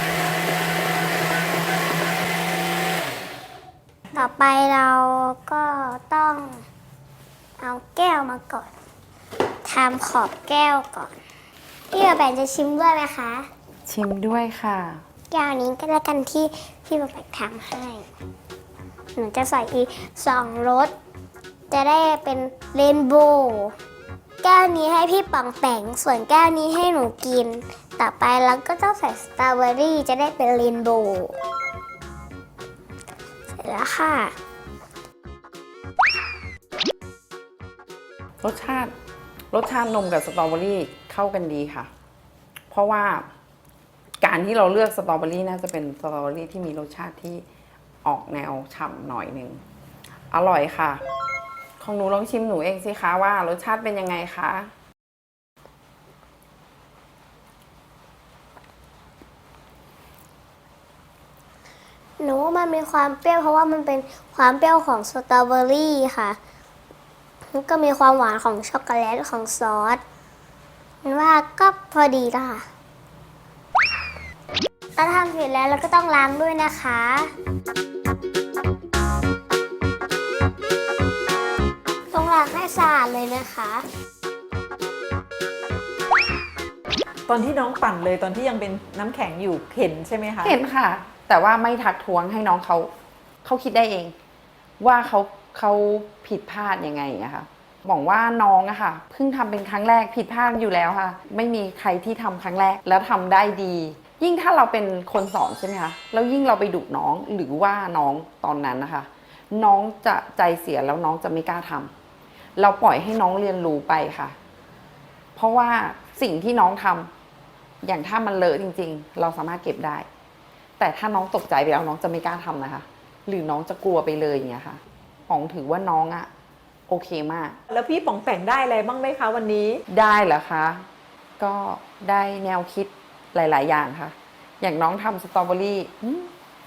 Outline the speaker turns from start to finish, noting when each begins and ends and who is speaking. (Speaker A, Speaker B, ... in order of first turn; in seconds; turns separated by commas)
Speaker A: 4.1-6.7, Speaker A: 7.6-8.7, Speaker A: 9.7-11.1, Speaker A: 11.9-13.5, Speaker B: 13.9-15.0, Speaker A: 15.3-18.1, Speaker A: 19.2-20.9, Speaker A: 21.7-23.8, Speaker A: 24.4-31.4, Speaker A: 33.5-34.4, Speaker B: 38.4-38.9, Speaker B: 39.5-41.9, Speaker B: 42.7-43.3, Speaker B: 44.2-47.4, Speaker B: 48.0-49.6, Speaker B: 50.3-51.0, Speaker B: 51.8-54.7, Speaker A: 62.2-66.4, Speaker A: 67.5-70.0, Speaker A: 71.0-72.7, Speaker A: 75.0-77.3, Speaker A: 82.1-83.8, Speaker C: 87.3-90.6, Speaker B: 90.4-92.9, Speaker B: 93.4-94.2, Speaker B: 94.8-111.9, Speaker B: 112.6-114.4, Speaker B: 115.4-117.1, Speaker B: 117.8-120.1, Speaker B: 120.8-126.3, Speaker B: 126.9-127.6, Speaker C: 127.7-129.8, Speaker B: 129.9-130.8, Speaker B: 131.4-136.3